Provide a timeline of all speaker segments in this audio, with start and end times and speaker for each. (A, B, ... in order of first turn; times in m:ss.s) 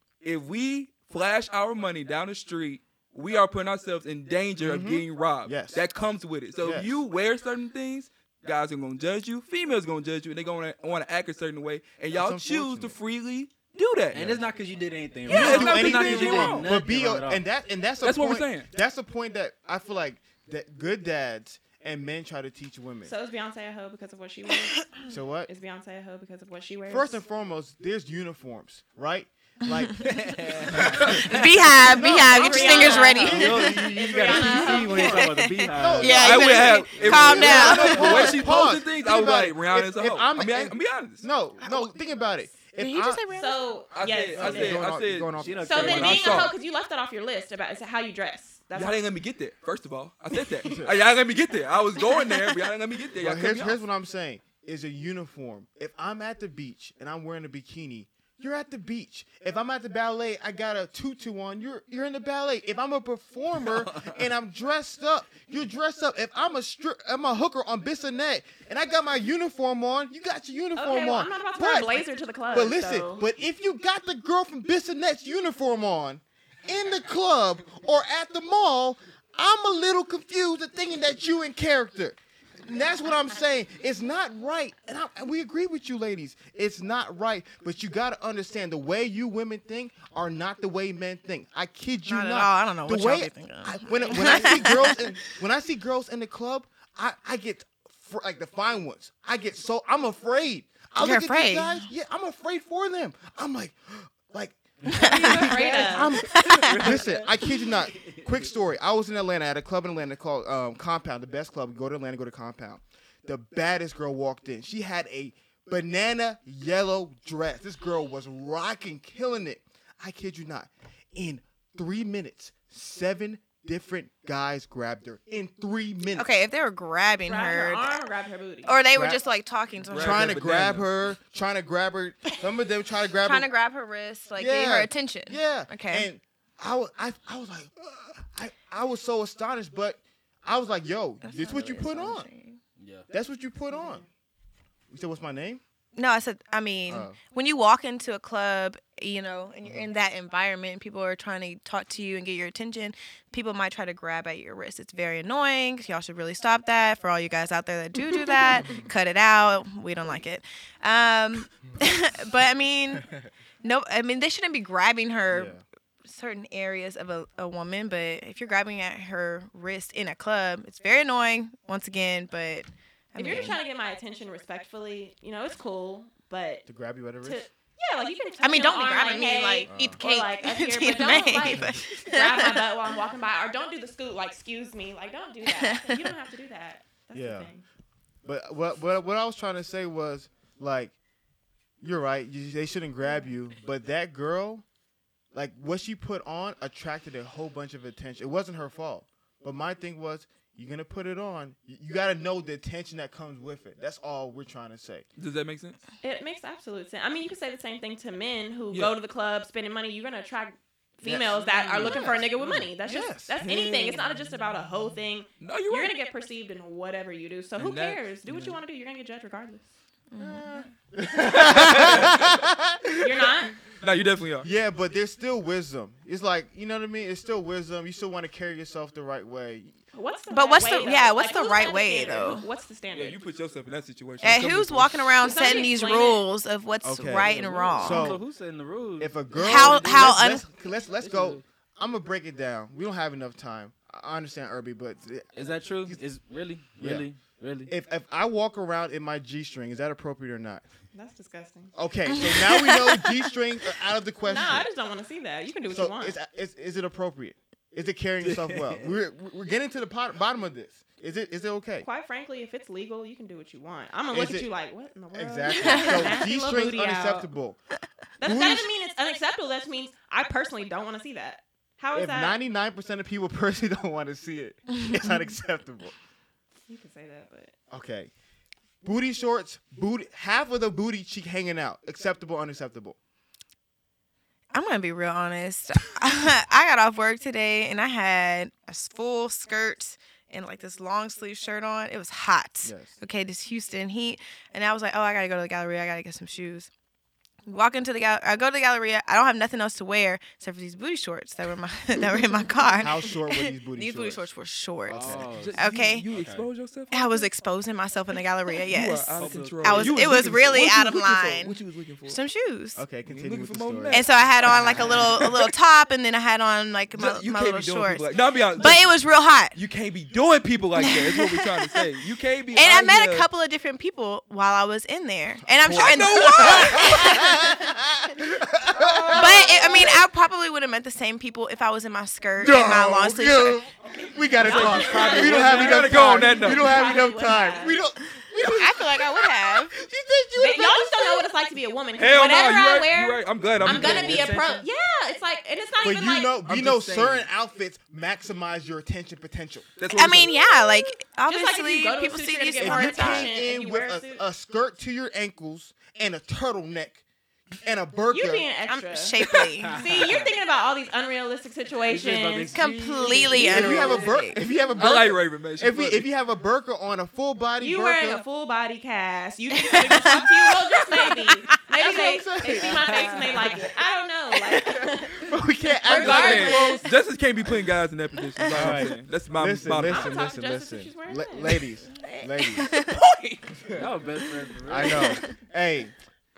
0:00.2-0:14.4 A
0:04.6-0:05.8 B
0:06.6-0:06.9 B
0:12.1-0:13.0 B
0:14.1-0:17.4 C
0:15.3-0:16.5 D
0:15.3-0:16.7 A
0:15.3-0:23.1 B
0:18.0-0:18.7 A
0:23.0-0:24.9 D
0:25.1-0:25.5 B
0:25.5-0:27.2 D
0:26.9-0:30.1 B
0:29.7-0:30.2 E
0:30.0-0:32.1 C
0:30.7-0:43.2 B
0:31.0-0:38.6 E
0:32.1-0:35.2 D
0:33.2-0:36.3 C
0:36.0-0:41.3 A
0:37.6-0:38.4 C
0:41.6-0:42.0 E
0:42.7-0:43.6 E
0:43.3-0:44.8 D
0:43.9-0:46.5 A
0:44.3-0:46.4 B
0:45.4-0:46.5 C
0:45.6-0:49.0 D
0:48.8-0:53.8 A
0:50.6-0:51.0 B
0:52.0-0:52.5 D
0:53.2-2:06.3 B
1:03.7-1:04.2 C
1:10.8-1:13.3 D
1:32.1-1:35.1 E
1:34.1-1:34.7 D
1:41.0-1:41.8 E
1:44.9-1:48.3 C
1:44.9-1:46.9 E
1:45.0-1:46.2 D
2:06.2-2:08.0 E
2:07.2-2:08.8 D
2:08.6-2:10.4 E
2:08.9-2:09.2 B
2:09.8-2:10.9 A
2:10.0-2:13.5 B
2:13.2-2:16.1 E
2:14.4-2:22.3 B
2:21.2-2:22.6 E
2:22.8-2:23.1 C
2:23.1-2:24.0 B
2:23.7-2:24.0 D
2:24.9-2:25.6 B
2:26.0-2:43.1 E
2:26.9-2:27.2 B
2:43.6-2:53.6 E
2:45.3-2:45.6 B
2:53.2-2:56.7 D
2:53.3-2:53.6 B
2:56.7-2:57.4 B
2:57.2-3:07.7 D
2:58.4-3:02.6 E
2:59.6-3:00.0 B
3:01.4-3:01.8 B
3:05.4-3:06.1 E
3:07.1-3:07.5 B
3:08.2-3:11.0 B
3:11.8-3:14.6 B
3:15.3-3:25.0 B
3:25.2-3:25.8 A
3:26.0-3:39.7 D
3:31.0-3:32.2 B
3:31.6-3:32.7 A
3:32.8-3:33.4 B
3:33.5-3:33.9 A
3:35.4-3:35.9 A
3:37.6-3:38.5 A
3:40.1-3:40.7 E
3:40.2-3:43.3 B
3:41.4-3:42.1 A
3:43.0-3:43.5 D
3:43.8-3:44.5 A
3:44.4-3:49.8 B
3:49.9-3:53.2 D
3:50.3-3:52.5 E
3:52.9-3:55.1 A
3:54.2-3:58.2 E
3:55.2-3:56.3 D
3:56.8-3:58.2 B
3:57.1-4:00.3 C
3:59.0-4:06.0 B
3:59.4-4:00.5 E
4:01.0-4:01.4 C
4:05.4-4:07.7 C
4:06.8-4:07.1 B
4:07.7-4:10.6 B
4:10.9-4:11.7 D
4:11.7-4:14.7 B
4:12.3-4:12.9 E
4:14.2-4:16.2 D
4:15.7-4:21.9 B
4:18.2-4:18.9 C
4:21.8-4:27.3 D
4:24.1-4:24.5 B
4:25.1-4:27.6 B
4:25.5-4:26.2 E
4:28.2-4:32.4 D
4:28.2-4:28.7 B
4:31.9-4:36.0 B
4:36.7-4:37.5 D
4:37.7-4:38.1 B
4:38.8-4:43.0 B
4:44.5-4:56.7 E
4:52.6-4:53.0 B
4:57.5-5:06.1 E
5:02.8-5:04.2 B
5:04.9-5:05.3 B
5:04.9-5:06.4 C
5:05.3-5:07.3 A
5:06.9-5:12.8 E
5:08.7-5:12.2 A
5:09.2-5:10.2 C
5:12.8-5:14.9 B
5:13.1-5:15.5 A
5:13.9-5:19.6 E
5:14.5-5:15.1 C
5:17.0-5:18.9 A
5:19.5-5:23.3 A
5:20.8-5:21.7 E
5:22.5-5:27.8 E
5:25.6-5:30.0 B
5:25.7-5:27.4 A
5:28.8-5:29.9 A
5:29.1-5:33.7 E
5:32.4-5:41.2 B
5:34.4-5:37.8 D
5:34.4-5:36.8 A
5:38.4-5:39.8 E
5:40.4-5:46.4 D
5:42.0-5:44.3 A
5:43.6-5:44.6 C
5:45.8-5:49.8 B
5:46.5-5:47.3 A
5:49.8-5:50.3 A
5:49.9-5:53.3 E
5:50.5-5:54.2 D
5:52.6-5:57.0 B
5:57.6-5:58.5 B
5:58.1-6:04.0 D
5:58.7-5:59.8 E
5:59.6-6:00.3 C
6:01.9-6:04.1 C
6:02.5-6:04.4 E
6:03.4-6:08.2 B
6:04.8-6:06.1 A
6:07.6-6:15.2 D
6:09.6-6:12.7 E
6:11.7-6:12.8 B
6:14.5-6:14.8 E
6:15.2-6:16.8 B
6:15.8-6:16.9 E
6:15.9-6:20.3 A
6:16.0-6:16.5 D
6:18.4-6:18.7 E
6:18.5-6:19.1 C
6:18.6-6:22.7 B
6:19.8-6:21.6 D
6:22.0-6:23.0 E
6:22.9-6:23.7 A
6:23.7-6:25.2 C
6:24.7-6:26.0 B
6:24.9-6:25.3 E